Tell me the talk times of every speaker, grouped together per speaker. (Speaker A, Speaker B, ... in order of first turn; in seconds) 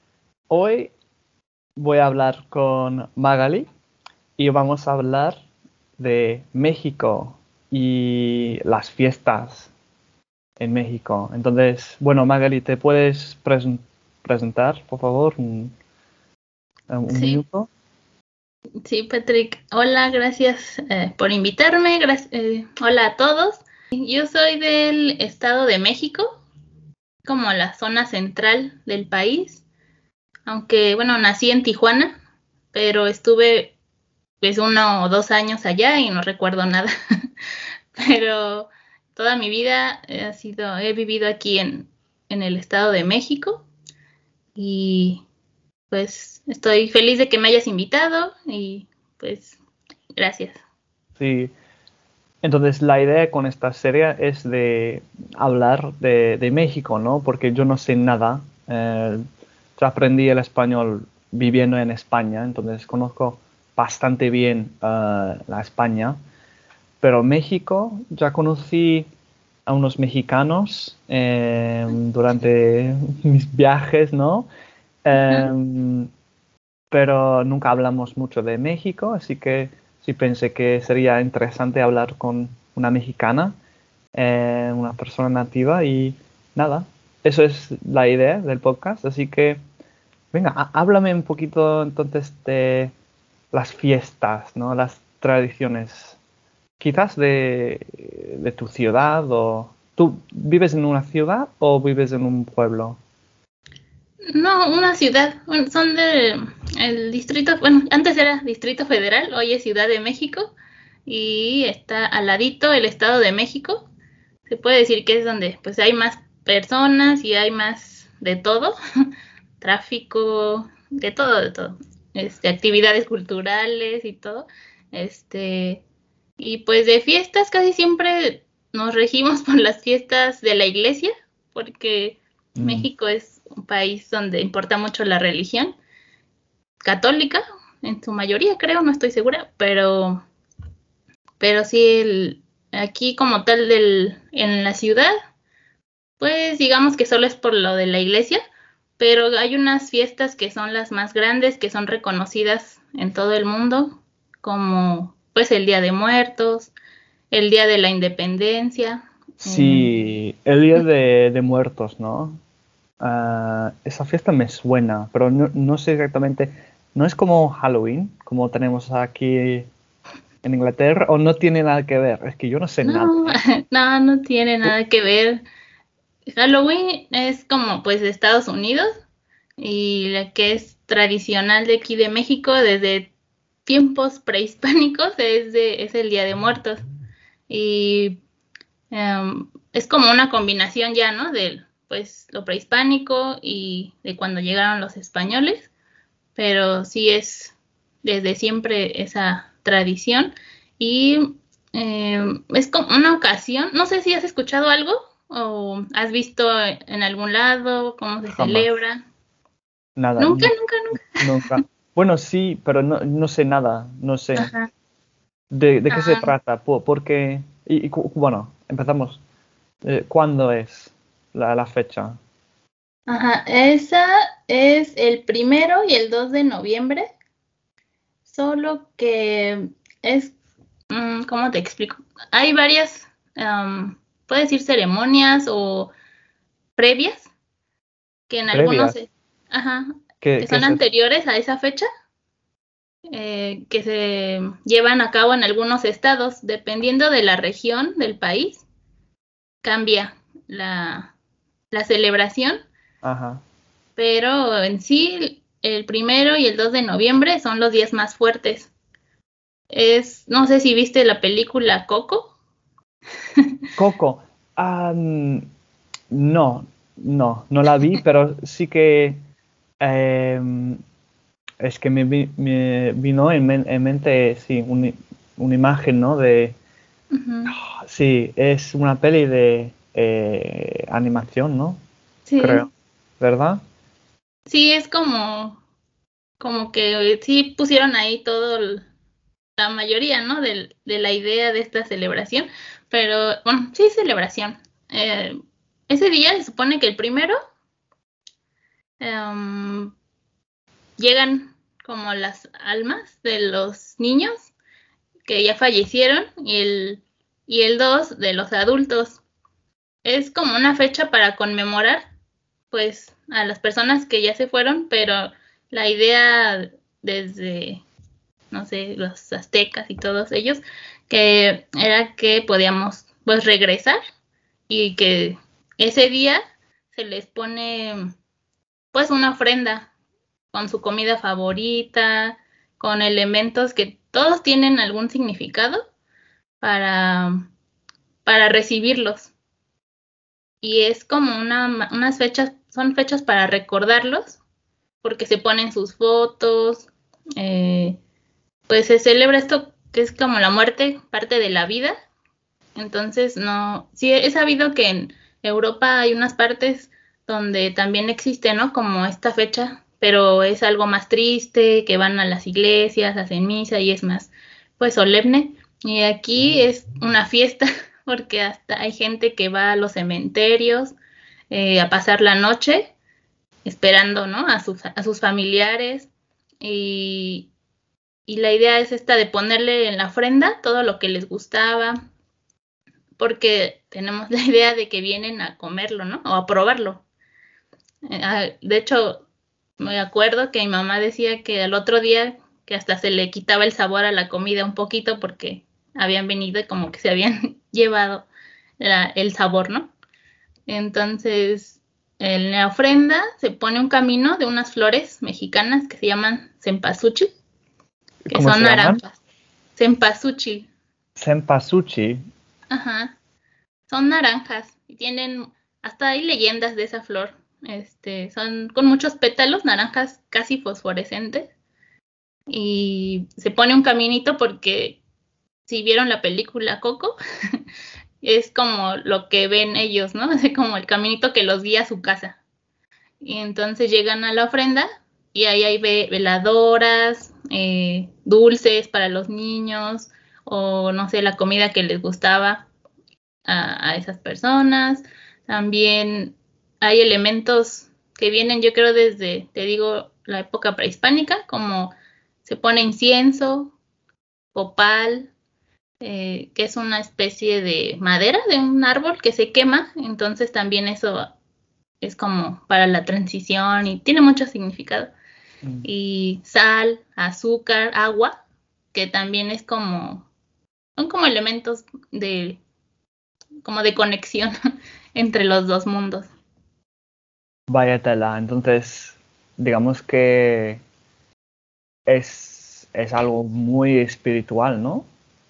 Speaker A: 0.5-0.9, 1.8-3.6, 4.4-5.4, 6.0-9.7, 10.6-15.7, 16.9-17.7, 51.2-51.5, 52.4-59.2, 59.8-66.2, 67.0-69.1, 69.7-74.5, 75.0-76.1, 76.9-83.5, 84.1-89.6, 90.3-92.9, 93.5-96.2, 96.8-103.0, 132.6-132.9, 159.4-162.4, 163.0-169.7, 170.4-173.4, 208.3-208.7, 210.0-210.5, 211.2-214.5, 215.5-219.2, 219.8-222.2, 238.5-239.0, 240.2-240.8, 253.0-253.4, 263.8-265.5, 266.1-269.2, 269.8-270.8, 271.6-276.6, 277.5-281.8, 282.4-282.7, 283.2-283.6, 408.2-409.0, 411.2-412.2, 477.7-480.8, 482.1-485.1
Speaker B: 17.1-17.4, 18.8-26.4, 27.2-29.6, 30.4-32.2, 32.7-33.8, 34.4-36.9, 38.0-43.7, 44.5-45.2, 45.9-49.6, 50.2-50.6, 104.3-110.5, 111.0-113.9, 114.5-118.7, 119.6-125.8, 126.4-135.8, 136.8-140.2, 141.4-145.1, 146.2-148.4, 149.0-156.7, 157.3-159.9, 172.8-175.4, 176.3-178.9, 179.6-183.1, 183.7-186.8, 187.5-188.2, 188.9-195.7, 196.3-209.0, 210.2-211.4, 214.3-214.7, 215.9-216.3, 223.1-227.1, 228.3-230.3, 230.9-235.9, 236.8-237.3, 238.3-239.8, 240.4-241.8, 243.1-248.6, 249.6-251.1, 251.7-252.6, 254.0-258.7, 259.7-262.3, 277.1-277.5, 282.3-282.6, 284.5-285.6, 286.4-288.9, 289.6-295.3, 295.9-297.4, 299.0-299.9, 301.0-304.5, 305.2-309.2, 310.0-312.1, 312.7-317.8, 318.5-324.0, 324.7-326.4, 326.9-328.0, 328.9-329.9, 330.5-335.8, 336.6-337.5, 338.2-339.3, 340.6-344.4, 345.0-348.0, 348.7-351.9, 352.8-370.9, 371.5-372.9, 373.6-376.1, 376.6-377.5, 378.3-382.0, 383.2-387.0, 388.1-389.2, 389.8-398.3, 398.8-399.9, 400.7-407.3, 408.3-409.2, 409.8-410.7, 412.7-413.1, 413.9-421.5, 422.5-425.0, 425.7-427.2, 428.2-432.4, 433.2-442.7, 443.4-453.7, 454.5-455.3, 456.0-461.3, 462.0-465.1, 465.8-468.3, 468.9-470.3, 471.0-472.6, 473.6-474.5, 475.1-476.3